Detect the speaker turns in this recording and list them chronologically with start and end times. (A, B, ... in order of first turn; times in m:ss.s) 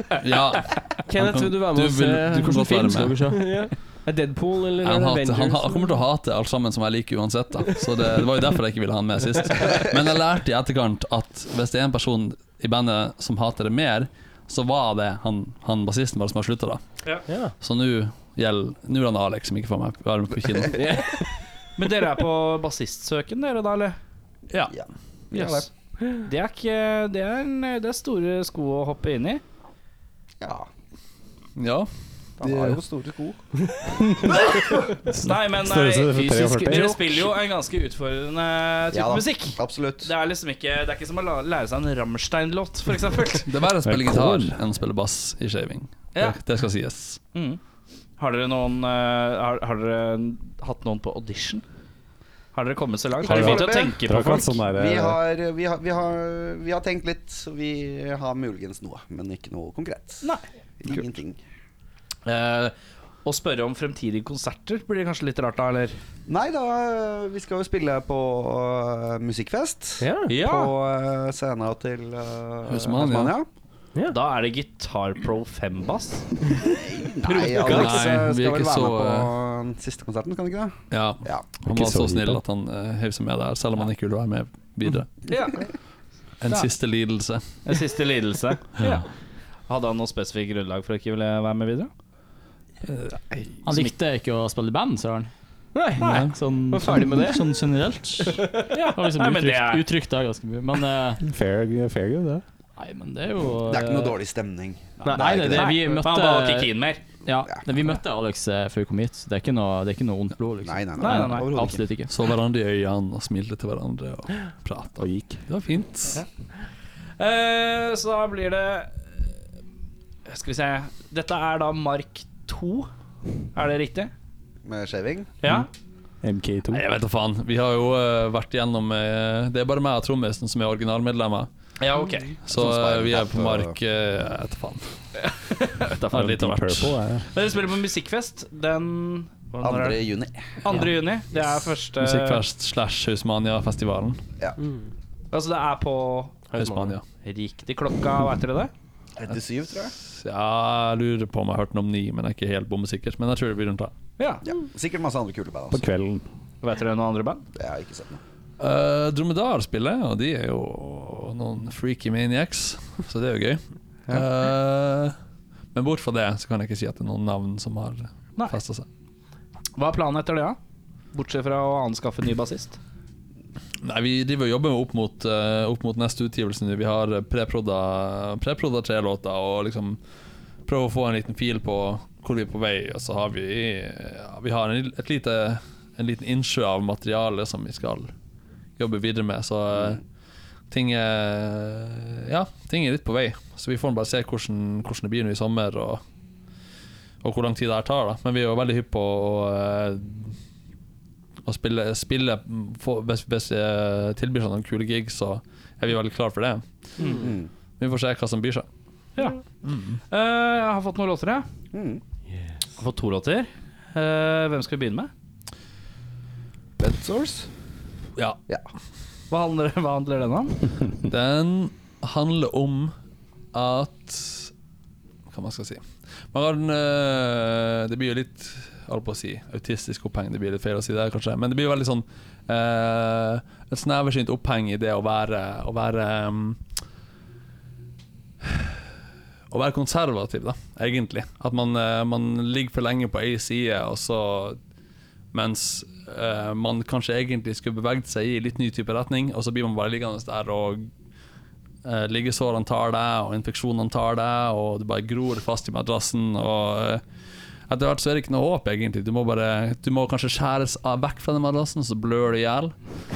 0:00.2-0:03.3 A
0:01.1-0:02.7 B
0:02.4-0:03.6 C
0:03.3-0:06.0 B
0:04.8-0:16.8 A
0:17.3-0:17.5 B
0:17.6-0:21.0 A
0:20.7-0:21.2 B
0:21.8-0:23.9 D
0:24.7-0:25.7 E
0:25.3-0:25.7 D
0:26.2-0:29.4 D
0:30.4-0:30.7 E
0:31.6-0:31.9 A
0:32.4-0:33.4 E
0:32.4-0:32.7 A
0:34.0-0:34.4 F
0:35.0-0:37.0 F
0:35.2-0:43.4 D
0:38.9-0:40.1 E
0:43.4-0:47.2 A
0:43.8-0:44.6 F
0:48.2-0:51.6 D
0:52.6-0:54.5 D
0:53.3-0:54.0 E
0:53.3-0:55.2 F
0:54.6-1:00.2 E
1:00.2-1:01.0 D
1:00.8-1:01.4 E
1:02.3-1:02.7 D
1:03.2-1:05.9 D
1:06.3-1:13.4 E
1:10.0-1:10.3 B
1:10.3-1:10.7 D
1:12.7-1:13.4 A
1:14.1-1:16.2 D
1:16.6-1:21.5 E
1:17.2-1:18.0 D
1:17.6-1:19.3 A
1:20.9-1:25.3 A
1:21.7-1:22.4 F
1:25.3-1:25.6 D
1:26.4-1:27.4 A
1:27.6-1:29.0 D
1:29.7-1:31.9 D
1:32.9-1:33.6 A
1:33.6-1:35.3 C
1:35.7-1:36.2 B
1:36.0-1:36.4 A
1:36.0-1:41.2 C
1:36.7-1:37.6 B
1:38.7-1:39.8 D
1:41.2-1:42.4 F
1:42.8-1:44.2 C
1:43.6-1:45.8 E
1:45.0-1:47.0 D
1:45.0-1:45.7 B
1:45.1-1:52.1 C
1:50.6-1:51.8 E
1:51.0-1:51.5 D
1:52.1-1:56.2 A
1:55.0-1:55.4 F
1:57.2-1:58.9 D
2:00.3-2:02.8 D
2:03.6-2:04.1 D
2:04.6-2:05.3 E
2:05.4-2:05.7 D
2:06.2-2:06.8 F
2:06.7-2:11.5 A
2:11.8-2:12.3 D
2:12.4-2:14.9 A
2:12.5-2:13.8 E
2:15.7-2:16.3 D
2:16.1-2:16.9 A
2:16.1-2:17.3 F
2:17.3-2:20.0 D
2:19.6-2:20.8 E
2:20.6-2:22.4 D
2:22.0-2:24.2 A
2:24.6-2:24.9 B
2:25.3-2:26.4 D
2:26.5-2:26.9 B
2:26.5-2:27.0 A
2:27.2-2:28.7 D
2:29.2-2:29.9 E
2:30.1-2:33.9 A
2:34.4-2:35.8 E
2:35.7-2:36.3 F
2:36.6-2:37.4 D
2:37.6-2:38.2 E
2:38.6-2:45.1 A
2:45.7-2:48.9 A
2:49.8-2:50.6 D
2:51.1-2:52.8 D
2:53.8-3:00.0 A
3:00.6-3:08.1 A
3:08.8-3:10.0 A
3:10.7-3:16.0 A
3:17.2-3:20.4 A
3:21.4-3:26.7 A
3:27.0-3:27.5 E
3:27.8-3:28.7 A
3:29.6-3:30.0 A
3:30.1-3:31.4 D
3:31.7-3:32.0 E
3:32.8-3:33.4 D
3:34.0-3:35.1 D
3:36.8-3:37.5 E
3:39.3-3:40.6 D
3:41.0-3:42.9 A
3:43.5-3:44.5 A
3:45.3-3:56.6 A
3:58.4-3:58.8 A
3:59.5-4:04.6 A
4:05.3-4:10.9 A
4:11.8-4:17.0 A
4:17.7-4:22.7 A